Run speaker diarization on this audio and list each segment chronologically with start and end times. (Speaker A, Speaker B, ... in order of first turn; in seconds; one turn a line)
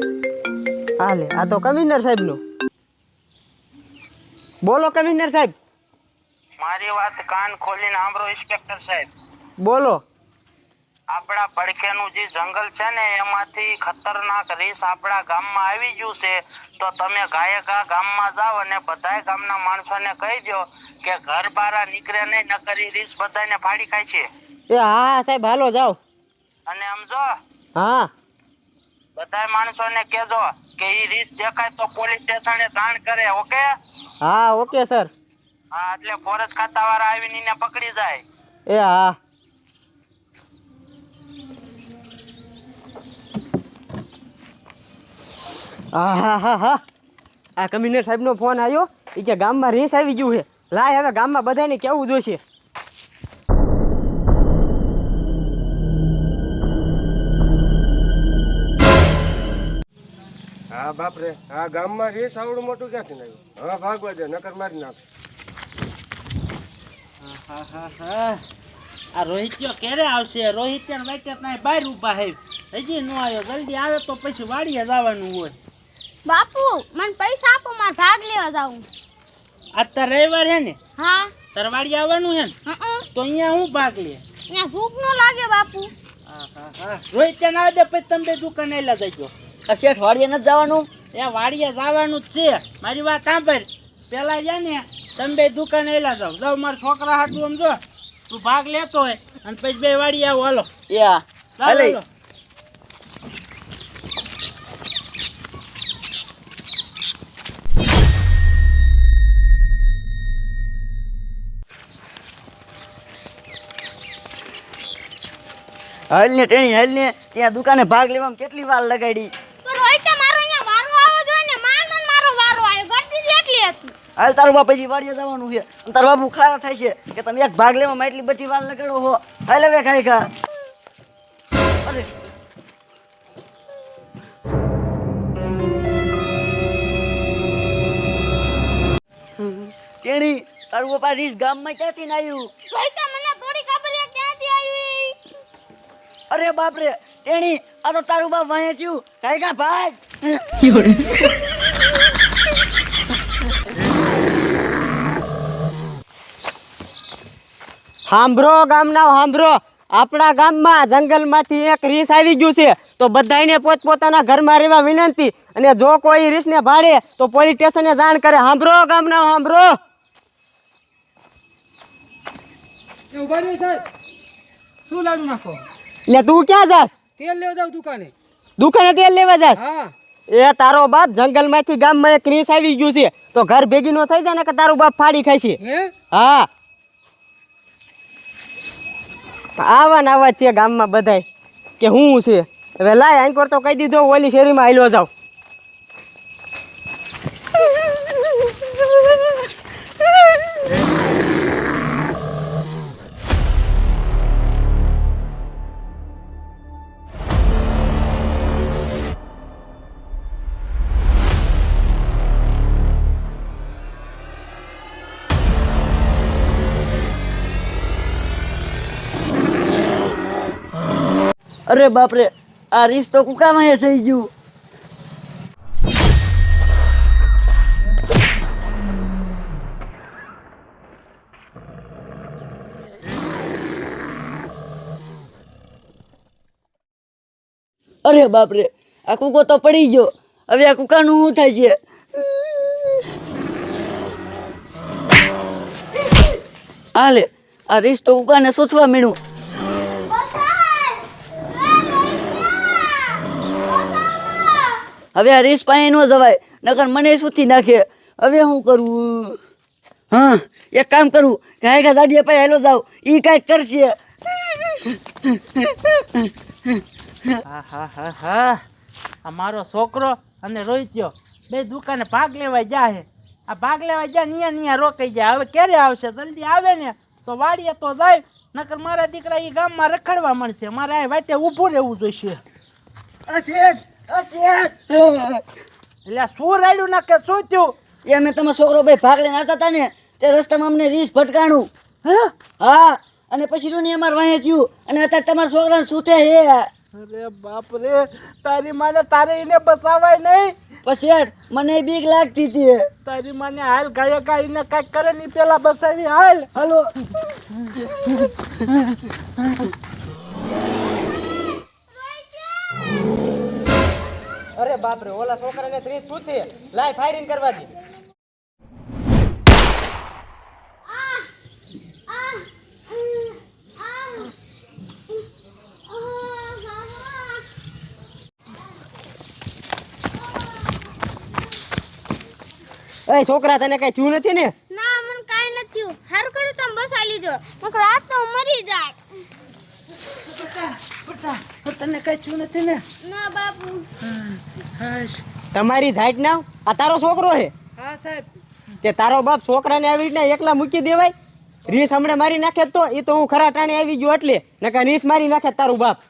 Speaker A: 1.0-2.4
Speaker A: 4.6-5.5
Speaker B: 6.6-9.1
Speaker A: 9.6-10.0
Speaker B: 11.1-24.3
Speaker A: 24.7-26.0
Speaker B: 26.7-27.3
Speaker A: 27.8-28.1
Speaker B: 29.2-33.8
Speaker A: 34.2-35.1
Speaker B: 35.7-38.2
Speaker A: 38.7-39.2
Speaker A: 45.9-46.8
Speaker A: 47.6-52.4
Speaker C: 60.7-65.0
Speaker D: 67.2-68.4
Speaker D: 69.1-75.5
Speaker E: 76.2-78.9
Speaker D: 79.7-80.8
Speaker E: 81.0-81.3
Speaker D: 81.5-82.5
Speaker E: 82.7-83.0
Speaker D: 83.1-84.2
Speaker E: 84.5-85.9
Speaker D: 86.2-89.3
Speaker F: 89.7-90.9
Speaker D: 91.1-100.7
Speaker F: 100.9-102.0
Speaker D: 101.6-102.0
Speaker F: 116.1-119.3
Speaker E: 119.6-124.0
Speaker F: 124.2-130.3
Speaker F: 139.4-142.5
Speaker E: 142.7-145.2
Speaker F: 146.3-151.3
Speaker A: 158.1-169.8
Speaker G: 173.1-173.8
Speaker G: 174.9-175.6
Speaker A: 176.1-176.9
Speaker G: 177.2-178.1
Speaker A: 178.6-179.6
Speaker G: 179.6-179.9
Speaker A: 180.3-185.6
Speaker G: 185.6-185.9
Speaker A: 186.1-186.5
Speaker A: 189.6-191.2
Speaker A: 191.8-195.1
Speaker F: 221.7-224.3
Speaker F: 238.0-242.9
Speaker F: 246.9-249.2
Speaker E: 249.9-254.9
Speaker F: 255.1-259.4
Speaker F: 260.1-263.9
Speaker F: 264.6-264.9
Speaker D: 267.4-268.6
Speaker D: 269.2-282.4
Speaker F: 283.3-285.4
Speaker D: 286.0-287.8
Speaker F: 288.0-291.7
Speaker F: 292.5-296.7
Speaker D: 296.9-300.5
Speaker F: 300.8-302.9
Speaker D: 303.0-306.5
Speaker F: 306.5-306.9
Speaker E: 311.9-313.1
Speaker A: 314.5-317.7
Speaker E: 320.9-321.3
Speaker E: 322.1-324.3
Speaker E: 325.9-327.5
Speaker A: 333.1-334.5
Speaker E: 334.7-339.0
Speaker D: 340.1-342.8
Speaker E: 343.0-343.9
Speaker D: 344.0-345.2
Speaker A: 345.5-347.5
Speaker D: 347.8-348.3
Speaker A: 348.8-351.1
Speaker A: 351.7-356.0